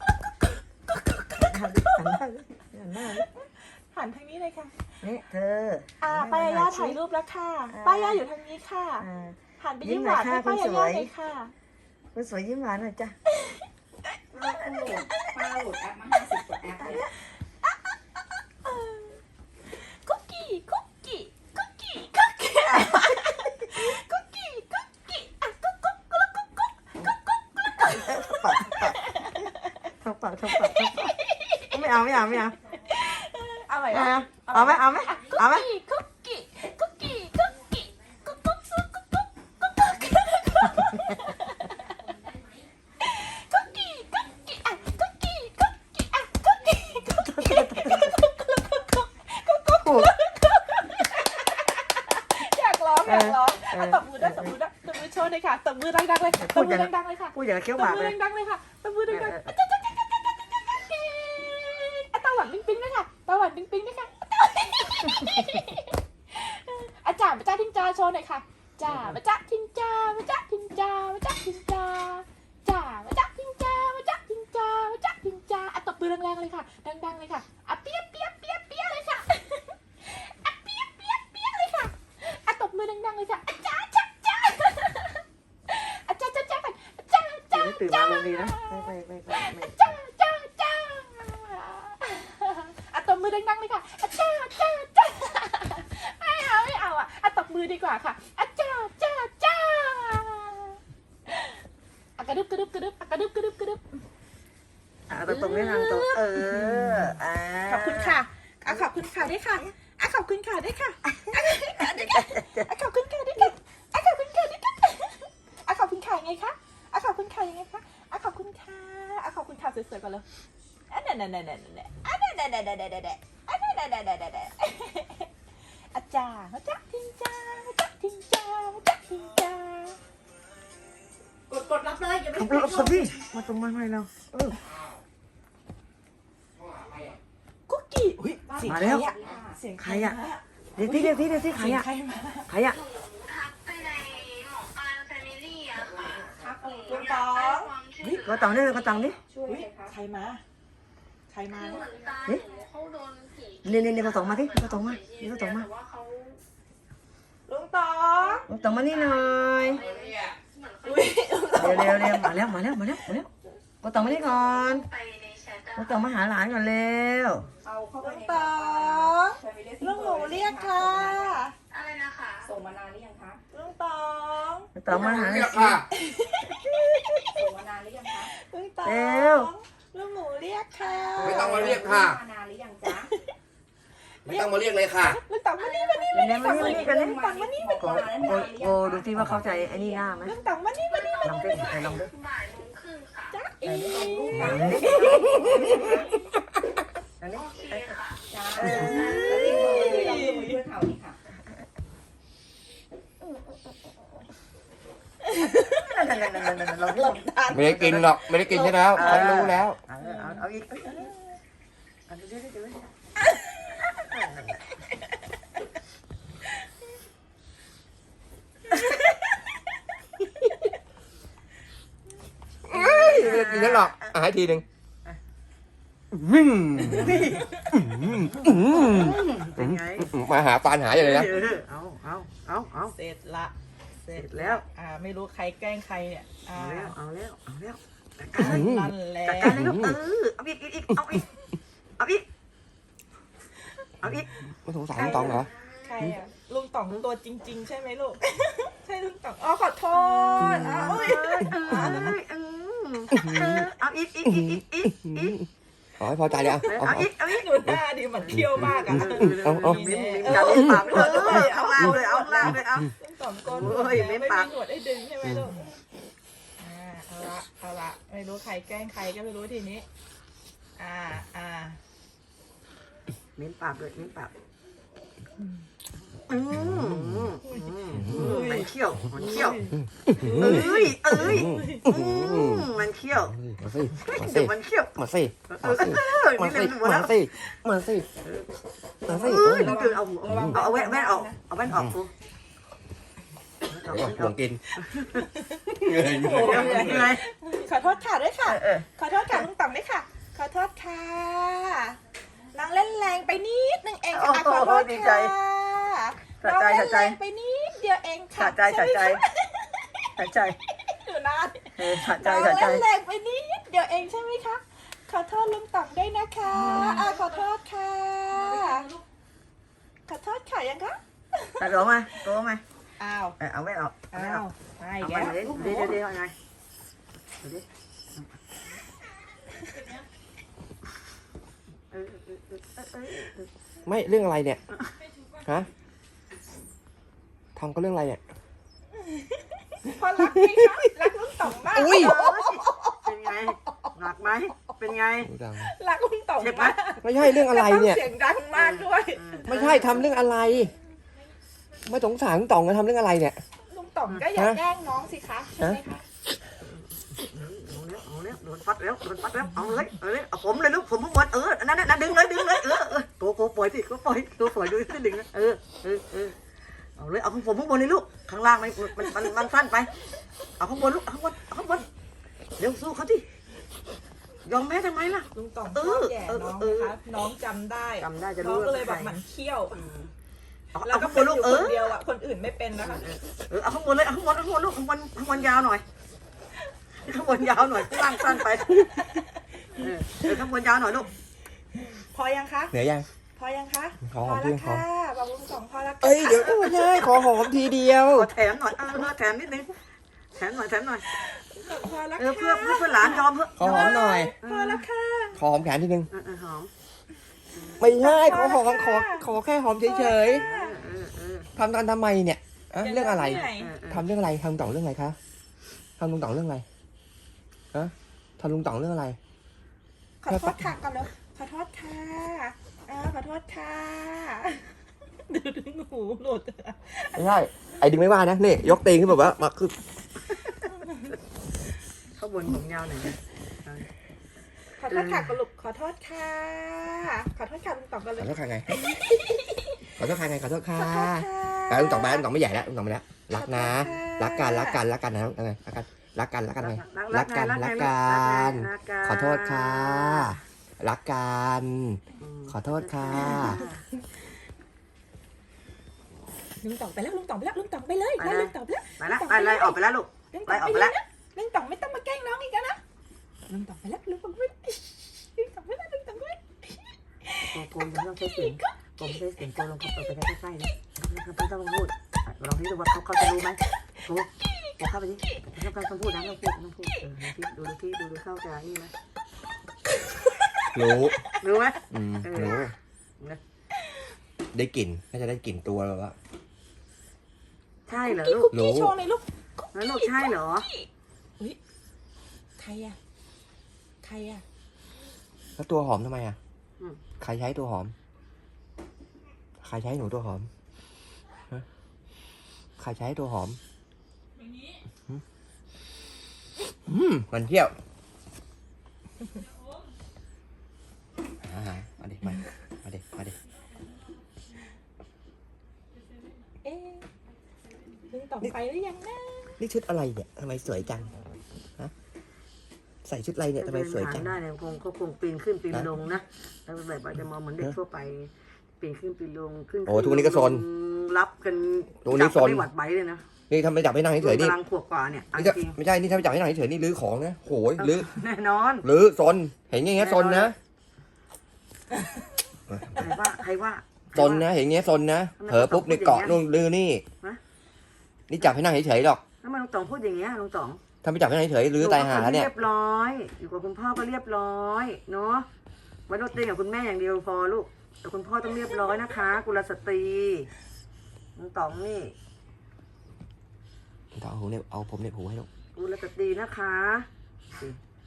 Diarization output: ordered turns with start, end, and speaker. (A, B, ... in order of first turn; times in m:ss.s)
0:00.9-0:02.1 A
0:01.3-0:03.2 B
0:03.2-0:04.7 A
0:05.0-0:07.0 B
0:06.0-0:09.1 A
0:07.7-0:08.2 B
0:09.0-0:11.1 B
0:09.6-0:11.5 A
0:12.1-0:13.2 B
0:13.3-0:13.6 A
0:14.3-0:15.4 A
0:14.3-0:17.0 C
0:16.8-0:17.2 A
0:18.6-0:19.2 A
0:19.7-0:29.6 A
0:22.7-0:23.3 B
0:27.8-0:29.0 B
0:30.0-0:31.1 B
0:30.5-0:31.8 A
0:31.7-0:32.6 B
0:32.9-0:39.0 A
0:33.9-0:35.7 B
0:39.8-0:41.9 A
0:43.0-1:41.6 A
0:47.1-0:48.2 B
0:49.8-0:50.1 B
0:53.0-0:54.5 B
0:56.4-0:58.2 B
0:59.1-0:59.5 B
1:08.8-1:09.2 B
1:27.5-1:29.8 B
1:42.2-1:43.9 A
1:45.1-1:48.9 B
1:45.2-1:47.1 A
1:47.6-2:00.2 A
1:51.0-1:52.7 B
2:00.9-2:05.3 A
2:05.9-2:10.0 A
2:11.5-2:13.2 C
2:12.3-2:14.6 B
2:17.7-2:22.5 A
2:18.4-2:19.6 C
2:18.6-2:19.1 B
2:19.8-2:20.2 B
2:20.8-2:21.9 B
2:22.5-2:22.8 B
2:22.7-2:28.8 D
2:26.0-2:27.2 C
2:26.9-2:28.2 A
2:28.2-2:29.2 B
2:29.1-2:29.9 C
2:29.4-2:30.4 A
2:31.3-2:31.8 A
2:31.5-2:36.4 D
2:31.9-2:32.4 C
2:33.6-2:35.7 B
2:37.5-2:38.4 A
2:38.5-2:39.8 B
2:38.5-2:41.1 D
2:39.7-2:40.2 C
2:40.8-2:42.5 A
2:41.6-2:43.3 B
2:43.8-2:44.9 B
2:44.2-2:46.0 D
2:45.7-2:47.5 B
2:47.6-2:51.4 C
2:48.0-2:51.5 A
2:51.7-2:52.5 D
2:52.4-2:53.4 C
2:53.5-2:57.4 A
2:54.7-2:55.8 B
2:54.9-2:55.8 E
2:57.3-2:58.3 C
2:58.2-3:01.5 A
2:58.8-2:59.5 B
3:01.1-3:03.1 C
3:01.2-3:01.9 B
3:01.2-3:02.2 E
3:02.9-3:03.3 A
3:04.2-3:07.9 A
3:04.2-3:05.2 E
3:05.6-3:06.5 D
3:06.1-3:07.2 B
3:06.4-3:10.4 C
3:07.8-3:10.4 B
3:10.2-3:11.6 A
3:10.9-3:13.3 D
3:11.2-3:12.1 B
3:13.3-3:15.6 A
3:13.6-3:16.1 C
3:14.3-3:15.7 B
3:17.2-3:17.9 B
3:17.3-3:19.5 D
3:18.3-3:21.2 C
3:18.5-3:20.2 B
3:18.6-3:20.6 A
3:25.3-3:25.8 A
3:25.6-3:28.0 B
3:26.8-3:29.4 A
3:27.5-3:29.8 E
3:28.6-3:31.1 B
3:30.0-3:31.1 A
3:32.1-3:32.8 B
3:33.3-3:33.8 A
3:34.1-3:34.6 B
3:42.7-3:44.6 E
3:42.7-3:44.1 B
3:46.1-3:51.3 E
3:46.8-3:47.5 B
3:48.2-3:50.1 B
3:50.9-3:53.0 B
3:52.9-3:53.5 A
3:54.0-3:56.9 A
3:54.1-3:54.6 B
3:56.5-3:58.6 B
3:58.3-3:59.6 A
3:58.4-4:00.0 E
3:59.2-4:01.3 B
4:02.0-4:02.2 B
4:04.0-4:04.4 B
4:04.6-4:05.5 E
4:04.9-4:12.2 A
4:05.0-4:05.4 B
4:10.1-4:15.4 B
4:10.4-4:12.1 E
4:13.1-4:13.7 E
4:14.3-4:15.5 E
4:16.0-4:17.1 E
4:16.4-4:25.7 A
4:16.6-4:17.5 B
4:18.2-4:22.9 B
4:18.3-4:21.4 E
4:23.4-4:24.5 B
4:26.6-4:29.8 A
4:30.8-4:31.8 A
4:33.4-4:34.3 B
4:36.3-4:39.7 B
4:36.5-4:37.3 E
4:37.4-4:42.0 A
4:38.0-4:38.4 E
4:39.8-4:48.1 E
4:40.2-4:43.4 B
4:44.0-4:44.9 B
4:45.5-4:47.2 B
4:49.0-4:52.1 B
4:49.1-4:50.6 E
4:49.1-4:51.4 A
4:51.7-4:52.0 E
4:53.7-4:55.3 B
4:53.8-4:54.6 E
4:54.7-5:02.0 A
4:55.8-4:57.2 E
4:56.0-4:57.2 B
4:58.4-4:59.4 B
5:02.5-5:09.9 A
5:04.1-5:05.3 B
5:06.4-5:07.2 B
5:08.3-5:09.2 B
5:10.2-5:10.6 B
5:10.8-5:18.9 A
5:11.8-5:12.8 B
5:18.5-5:18.9 C
5:20.1-5:21.7 A
5:21.6-5:22.6 B
5:23.0-5:23.4 A
5:23.4-5:24.4 B
5:24.1-5:25.9 A
5:25.0-5:26.3 B
5:31.9-5:33.5 B
5:33.8-5:34.6 E
5:35.4-5:35.7 E
5:37.6-5:38.2 E
5:39.8-5:44.0 A
5:40.3-5:40.8 E
5:41.7-5:42.2 E
5:41.7-5:45.3 B
5:45.2-5:45.7 E
5:45.6-5:49.5 A
5:46.4-5:46.8 B
5:47.0-5:48.0 E
5:48.5-5:50.1 B
5:49.4-5:50.7 E
5:51.9-5:53.4 E
5:53.7-5:56.0 A
5:54.3-5:54.6 E
5:56.6-6:06.4 B
6:07.0-6:09.9 B
6:10.6-6:11.9 B
6:12.6-6:13.2 B
6:14.4-6:16.9 B
6:15.3-6:19.8 A
6:18.0-6:19.2 B
6:19.8-6:20.1 B
6:20.7-6:21.9 B
6:20.8-6:23.0 A
6:22.8-6:25.8 B
6:27.0-6:29.0 B
6:27.9-6:30.4 A
6:29.8-6:31.1 B
6:31.9-6:32.7 A
6:32.7-6:33.1 E
6:33.3-6:37.2 A
6:34.0-6:34.8 E
6:36.0-6:38.3 E
6:38.1-6:39.7 B
6:40.3-6:41.0 B
6:41.1-6:45.4 A
6:42.2-6:44.8 B
6:43.6-6:44.3 E
6:45.3-6:46.1 E
6:46.1-6:46.7 B
6:47.5-6:47.8 B
6:47.8-6:50.5 E
6:47.9-6:49.2 A
6:49.8-6:50.7 A
6:50.2-6:51.5 B
6:51.6-6:55.2 E
6:52.8-6:53.8 A
6:53.2-6:54.0 B
6:56.0-6:56.6 E
6:57.7-6:59.2 E
7:00.2-7:04.7 A
7:00.3-7:00.6 E
7:05.2-7:07.3 A
7:07.1-7:09.7 E
7:12.2-7:13.9 B
7:14.8-7:20.0 A
7:14.9-7:15.3 B
7:18.2-7:18.7 E
7:20.0-7:33.6 E
7:20.7-7:22.3 A
7:23.3-7:24.8 A
7:26.6-7:30.4 B
7:32.2-7:33.8 B
7:33.1-7:33.6 A
7:36.6-7:39.8 A
7:38.2-7:41.0 B
7:40.3-7:42.8 A
7:43.5-7:47.6 A
7:47.5-7:58.9 B
7:48.2-7:48.7 A
7:54.4-7:55.4 A
7:59.9-8:01.4 A
8:00.7-8:01.2 E
8:01.4-8:02.7 B
8:01.9-8:02.7 E
8:04.5-8:06.1 E
8:07.8-8:08.5 B
8:08.0-8:11.6 A
8:08.5-8:08.9 E
8:09.7-8:10.7 B
8:12.6-8:13.0 A
8:14.0-8:14.4 A
8:15.6-8:16.4 E
8:17.2-8:17.9 E
8:19.6-8:20.5 E
8:22.8-8:23.6 E
8:26.8-8:27.7 E
8:31.4-8:33.3 E
8:36.6-8:37.0 A
8:38.1-8:39.6 A
8:39.6-8:41.2 E
8:43.0-8:44.3 E
8:43.6-8:53.2 B
8:49.8-8:50.6 E
8:52.0-8:52.6 E
8:53.5-8:54.5 E
8:54.2-8:55.8 B
8:55.4-8:58.1 E
8:57.8-8:58.8 B
8:58.8-9:00.5 E
9:00.0-9:00.5 B
9:02.7-9:03.0 E
9:03.0-9:04.5 B
9:04.1-9:07.0 E
9:05.4-9:06.4 B
9:08.3-9:09.2 E
9:09.4-9:10.8 B
9:11.0-9:12.5 E
9:11.8-9:15.5 B
9:16.1-9:20.5 B
9:21.3-9:22.1 B
9:24.1-9:25.5 E
9:25.8-9:27.8 B